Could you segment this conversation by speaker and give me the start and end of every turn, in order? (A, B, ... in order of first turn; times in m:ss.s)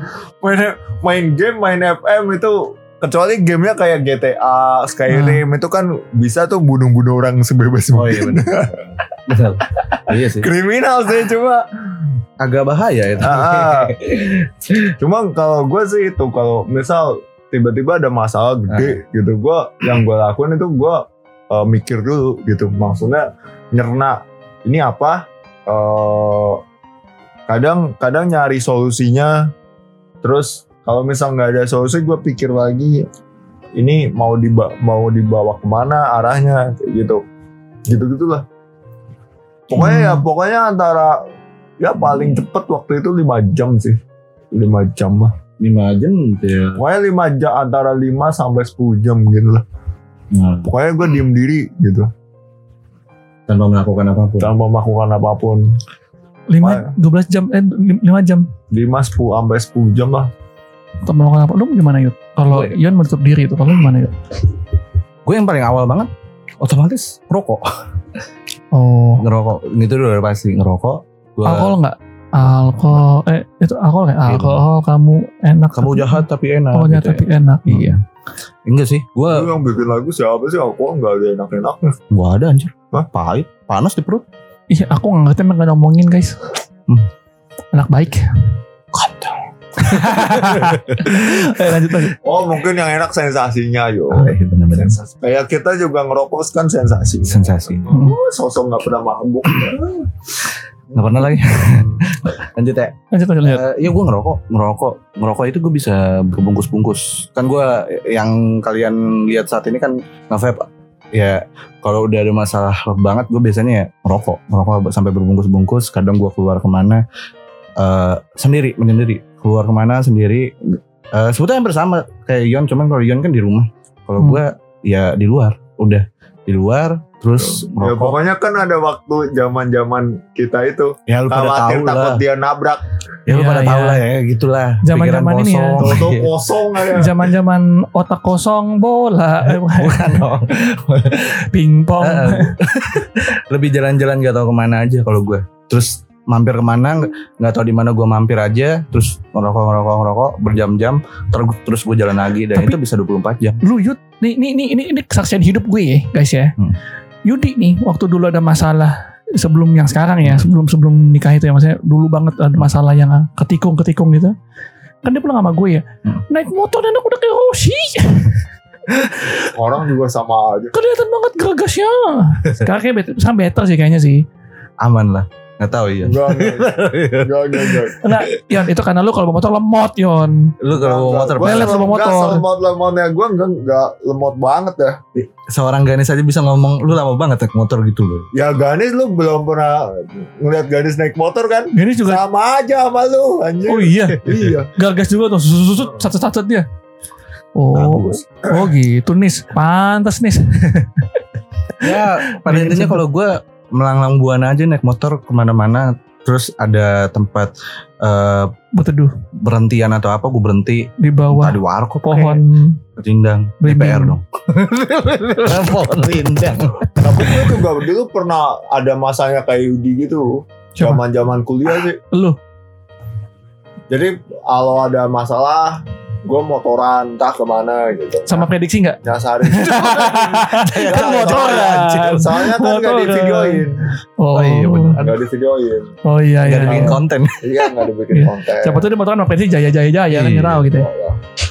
0:00.4-0:08.9 A
0:05.1-0:05.4 B
0:07.9-0:10.5 C
0:10.1-0:11.6 A
0:12.4-0:14.9 C
0:13.2-0:13.9 A
0:15.0-0:26.6 A
0:18.7-0:19.0 C
0:27.5-0:29.5 A
0:30.2-0:33.0 A
0:33.8-0:37.2 A
0:37.9-0:38.4 A
0:39.7-0:41.2 A
0:39.7-0:40.2 B
0:41.8-0:44.0 A
0:44.5-0:45.4 A
0:45.6-0:46.8 C
0:46.8-0:49.6 A
0:50.3-0:50.7 C
0:50.7-0:52.1 A
0:53.5-0:54.5 C
0:54.4-0:55.7 A
0:56.5-0:58.5 B
0:56.6-0:56.9 A
0:58.7-1:00.3 A
1:01.0-1:04.2 B
1:02.5-1:02.8 C
1:05.2-1:07.7 C
1:08.7-1:09.2 B
1:09.2-1:11.8 C
1:11.4-1:18.0 B
1:12.6-1:13.0 C
1:14.3-1:14.6 C
1:15.8-1:18.0 C
1:18.7-1:19.5 C
1:19.3-1:22.0 A
1:22.1-1:24.2 C
1:24.7-1:26.6 B
1:27.7-1:28.4 B
1:28.9-1:31.7 C
1:29.8-1:32.2 B
1:32.2-1:40.1 A
1:34.1-1:35.0 C
1:37.2-1:37.9 C
1:37.9-1:38.2 B
1:40.9-1:42.0 A
1:40.9-1:57.0 C
1:43.1-1:43.6 B
1:57.8-2:08.2 C
2:07.4-2:12.8 A
2:11.1-2:12.2 C
2:13.3-2:16.3 C
2:13.3-2:14.0 B
2:14.8-2:16.0 B
2:15.8-2:17.2 A
2:16.9-2:20.3 B
2:19.5-2:21.4 C
2:21.5-2:22.6 B
2:22.0-2:33.6 C
2:33.6-2:36.5 B
2:37.3-2:44.3 B
2:45.0-2:48.4 B
2:49.0-2:49.5 B
2:49.5-2:50.7 A
2:50.7-2:54.2 B
2:54.8-2:58.5 C
2:56.0-2:58.0 A
2:58.0-3:00.5 B
3:00.6-3:01.9 C
3:00.7-3:05.0 A
3:01.4-3:02.4 B
3:05.2-3:08.3 C
3:08.3-3:14.7 A
3:11.7-3:12.2 B
3:13.7-3:14.2 B
3:14.8-3:16.6 B
3:17.6-3:21.2 B
3:17.7-3:18.2 C
3:21.8-3:23.0 B
3:21.8-3:28.5 C
3:28.7-3:29.1 B
3:29.4-3:32.4 C
3:31.0-3:32.8 B
3:33.0-3:37.6 C
3:33.6-3:34.2 B
3:37.0-3:42.0 A
3:42.1-3:42.4 B
3:43.9-3:48.5 A
3:48.3-3:49.0 B
3:49.0-3:53.8 A
3:49.5-3:53.6 B
3:49.7-3:52.2 C
3:54.2-3:55.0 B
3:54.3-3:55.2 C
3:55.0-3:55.9 A
3:56.0-3:57.0 B
3:56.4-3:57.7 C
3:56.6-3:58.9 A
3:58.1-4:00.9 B
4:00.1-4:00.7 C
4:00.7-4:01.2 A